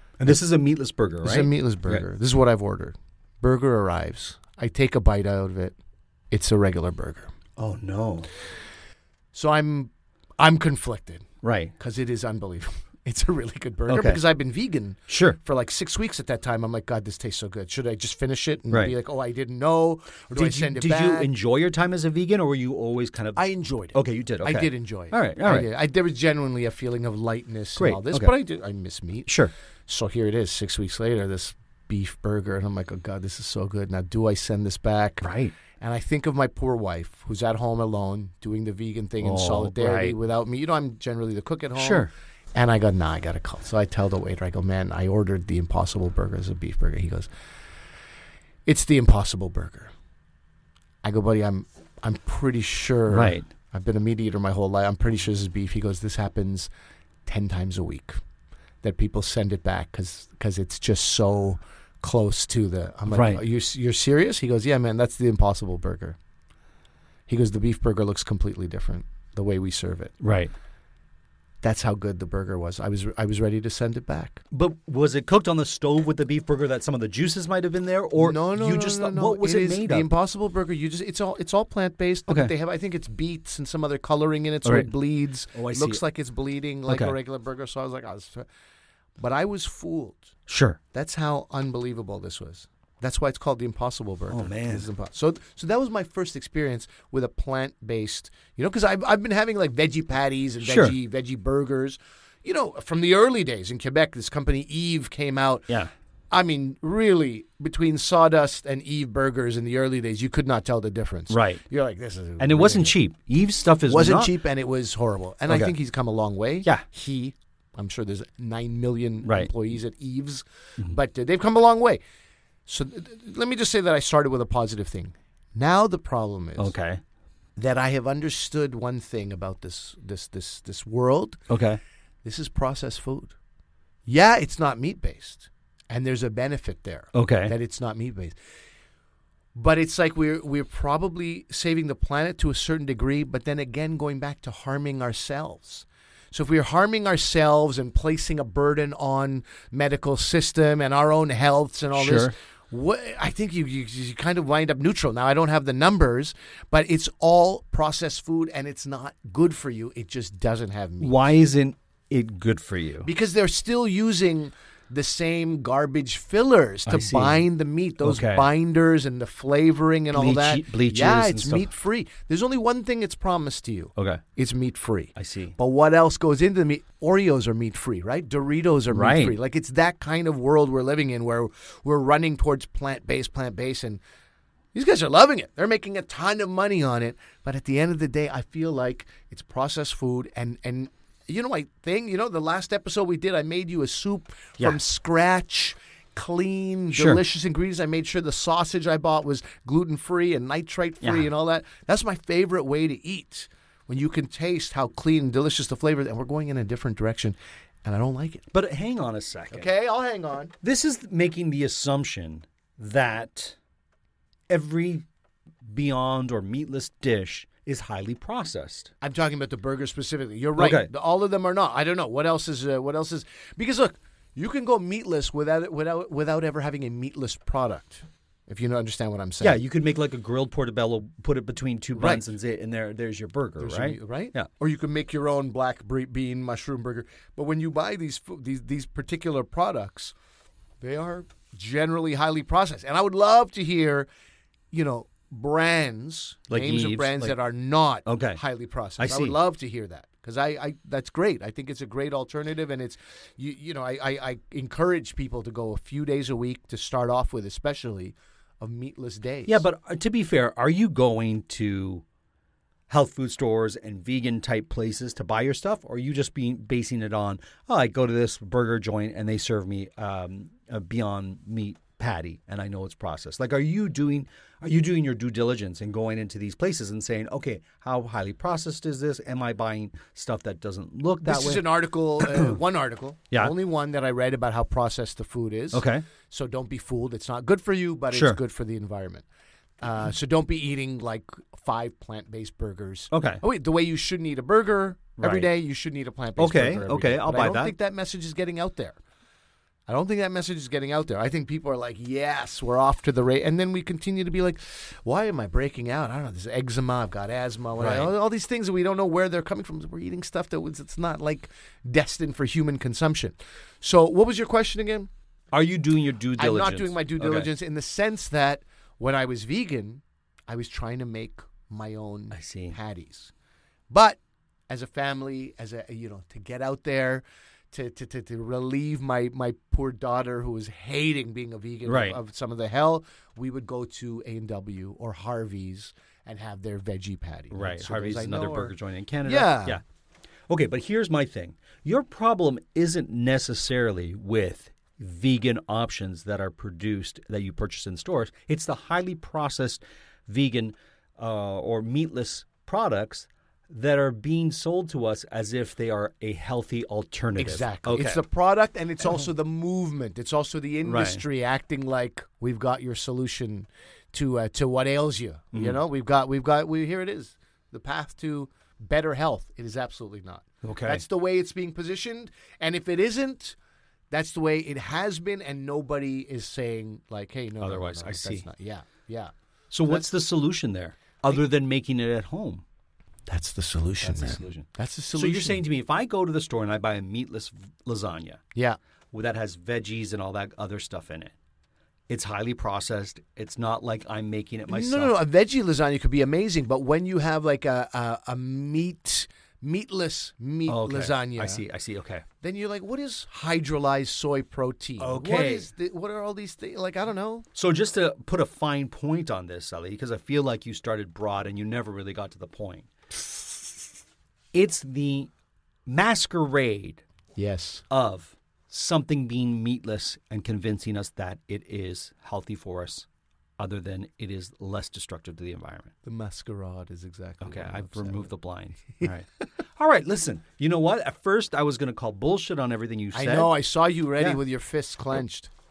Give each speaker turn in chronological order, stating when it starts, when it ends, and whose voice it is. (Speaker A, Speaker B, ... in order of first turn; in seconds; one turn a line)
Speaker A: 0.2-2.0
Speaker B: 1.2-5.8
Speaker B: 6.3-7.3
Speaker A: 7.6-8.3
Speaker B: 9.3-11.2
Speaker A: 11.4-11.7
Speaker B: 11.8-21.3
Speaker A: 13.9-14.2
Speaker A: 15.1-15.4
Speaker A: 18.7-18.9
Speaker A: 20.3-25.7
Speaker B: 23.3-29.3
Speaker A: 27.8-28.3
Speaker A: 29.3-29.5
Speaker B: 29.9-35.3
Speaker A: 35.2-35.5
Speaker B: 35.8-47.3
Speaker A: 39.2-40.1
Speaker A: 41.8-42.1
Speaker B: 48.6-49.9
Speaker B: 51.0-56.7
Speaker A: 53.1-53.5
Speaker B: 57.2-58.2
Speaker B: 58.8-66.2
Speaker A: 63.1-63.4
Speaker B: 67.3-70.1
Speaker A: 70.2-70.5
Speaker B: 71.6-74.4
Speaker A: 74.5-80.1
Speaker B: 78.1-88.5
Speaker A: 82.3-82.5
Speaker A: 84.6-84.9
Speaker A: 85.5-86.0
Speaker A: 86.9-87.1
Speaker B: 89.2-90.3
Speaker A: 90.5-90.8
Speaker B: 90.9-105.7
Speaker A: 94.3-94.9
Speaker A: 100.6-100.9
Speaker B: 106.3-112.9
Speaker A: 111.3-111.6
Speaker A: 112.4-114.3
Speaker B: 113.9-122.0
Speaker A: 115.5-115.7
Speaker A: 119.2-119.5
Speaker B: 122.7-126.8
Speaker A: 126.6-127.0
Speaker B: 127.5-131.4
Speaker A: 131.5-131.8
Speaker B: 132.2-133.3
Speaker B: 134.1-138.3
Speaker A: 137.1-137.5
Speaker B: 139.5-161.2
Speaker A: 151.9-152.3
Speaker A: 161.0-163.1
Speaker B: 163.0-184.0
Speaker A: 166.8-167.5
Speaker A: 168.0-168.5
Speaker A: 170.1-171.7
Speaker A: 173.9-174.2
Speaker A: 175.2-175.6
Speaker A: 178.9-179.4
Speaker B: 184.7-208.4
Speaker A: 196.9-197.2
Speaker A: 201.0-201.3
Speaker A: 208.5-209.7
Speaker B: 209.5-210.5
Speaker A: 210.6-213.6
Speaker A: 214.5-215.0
Speaker A: 215.7-218.9
Speaker B: 219.0-229.6
Speaker A: 220.6-220.9
Speaker A: 229.4-234.5
Speaker B: 231.9-232.3
Speaker B: 233.6-240.1
Speaker B: 240.8-244.1
Speaker B: 244.7-259.6
Speaker A: 246.5-247.3
Speaker A: 248.0-248.4
Speaker A: 249.0-249.4
Speaker A: 259.4-262.0
Speaker A: 262.9-282.6
Speaker B: 281.2-289.2
Speaker A: 285.7-286.0
Speaker A: 288.1-288.4
Speaker B: 289.8-299.0
Speaker A: 293.1-293.4
Speaker A: 295.2-295.5
Speaker A: 296.4-297.7
Speaker B: 299.9-315.1
Speaker A: 307.8-308.1
Speaker A: 315.5-317.5
Speaker B: 316.4-323.3
Speaker A: 322.3-322.8
Speaker B: 323.9-324.2
Speaker B: 324.7-339.8
Speaker A: 331.9-332.2
Speaker A: 337.5-339.8
Speaker A: 340.5-358.2
Speaker B: 357.4-373.6
Speaker A: 360.8-361.2
Speaker A: 365.5-365.8
Speaker A: 370.6-371.0
Speaker B: 374.1-379.3
Speaker A: 377.6-378.5
Speaker A: 379.7-382.6
Speaker B: 383.3-385.6
Speaker A: 384.0-388.4
Speaker A: 389.1-391.3
Speaker A: 392.1-395.2
Speaker B: 394.7-401.6
Speaker A: 400.7-402.2
Speaker B: 402.4-407.4
Speaker A: 405.0-405.7
Speaker A: 407.5-412.9
Speaker A: 414.5-415.3
Speaker A: 415.9-417.0
Speaker B: 417.4-417.8
Speaker A: 417.9-423.1
Speaker A: 423.6-425.9
Speaker B: 426.0-428.3
Speaker A: 427.4-433.5
Speaker B: 433.1-435.5